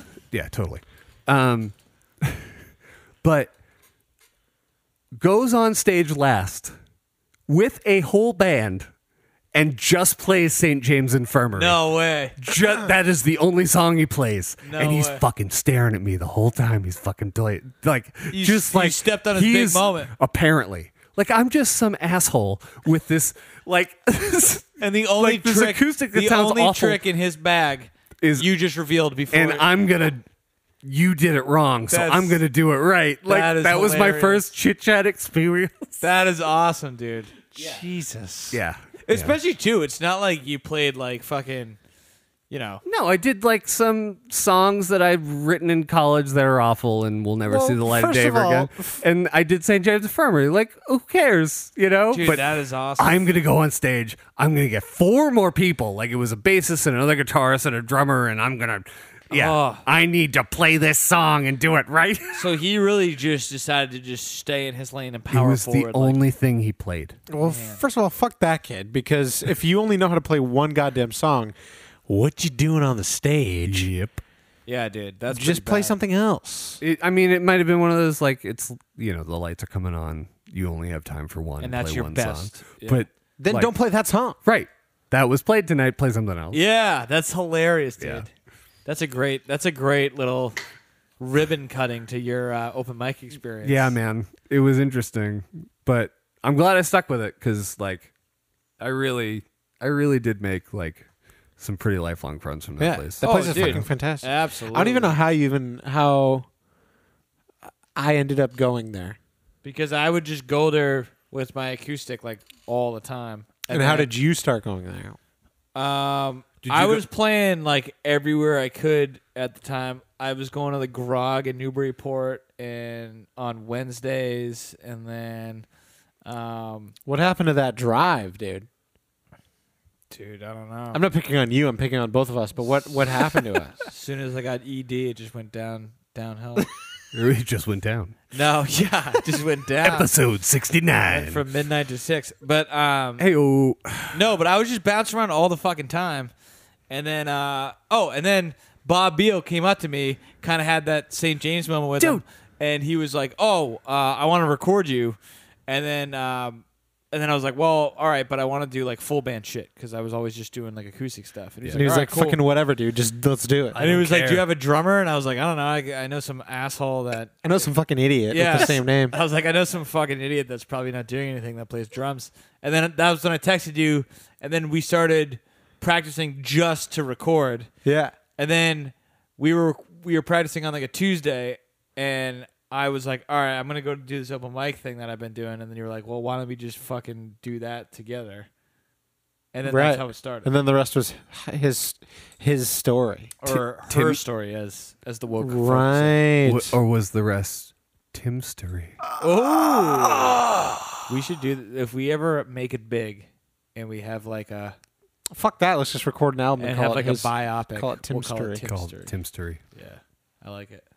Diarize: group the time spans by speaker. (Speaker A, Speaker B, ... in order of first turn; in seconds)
Speaker A: 0.3-2.5, 3.2-3.5, 5.2-6.7, 7.5-8.9, 9.5-11.8, 12.4-27.0, 28.2-28.5, 29.3-30.2, 30.8-36.0, 38.5-39.3, 42.8-62.5, 65.3-67.2, 73.6-74.2, 76.8-83.7, 84.4-86.6, 88.0-88.2, 93.6-98.1, 98.8-101.0, 101.6-103.8, 116.6-117.0, 137.1-138.2, 139.8-141.4, 143.2-144.2, 163.7-164.4, 193.5-194.2, 196.4-199.0, 208.6-209.6
Speaker B: 11.5-12.4, 14.6-15.2, 18.3-20.1, 24.8-29.7, 31.9-32.4, 33.3-34.4, 36.0-37.7, 39.0-41.8, 42.5-42.8, 52.1-53.2, 59.3-59.8, 62.3-66.2, 67.4-67.8, 74.7-75.9, 81.6-83.0, 86.5-88.3, 88.8-90.6, 91.2-93.9, 103.2-105.2, 109.6-114.1, 115.7-125.7, 126.2-126.9, 130.1-131.0, 133.8-136.7, 138.3-140.1, 141.0-143.2, 144.1-146.3, 146.9-162.4, 163.7-167.3, 168.3-177.7, 178.4-188.5, 189.5-190.5, 193.4-196.2, 199.2-200.4, 201.0-204.8, 206.6-209.1, 209.7-210.8
Speaker C: 37.5-38.6, 47.5-49.0, 67.3-71.5, 72.1-73.9, 75.3-76.8, 83.4-84.4, 102.8-106.5, 107.9-109.2, 113.7-115.2, 127.0-128.7, 130.9-133.8, 161.7-163.9, 167.4-169.2, 177.8-178.1, 189.6-193.3, 195.4-196.8, 205.3-208.6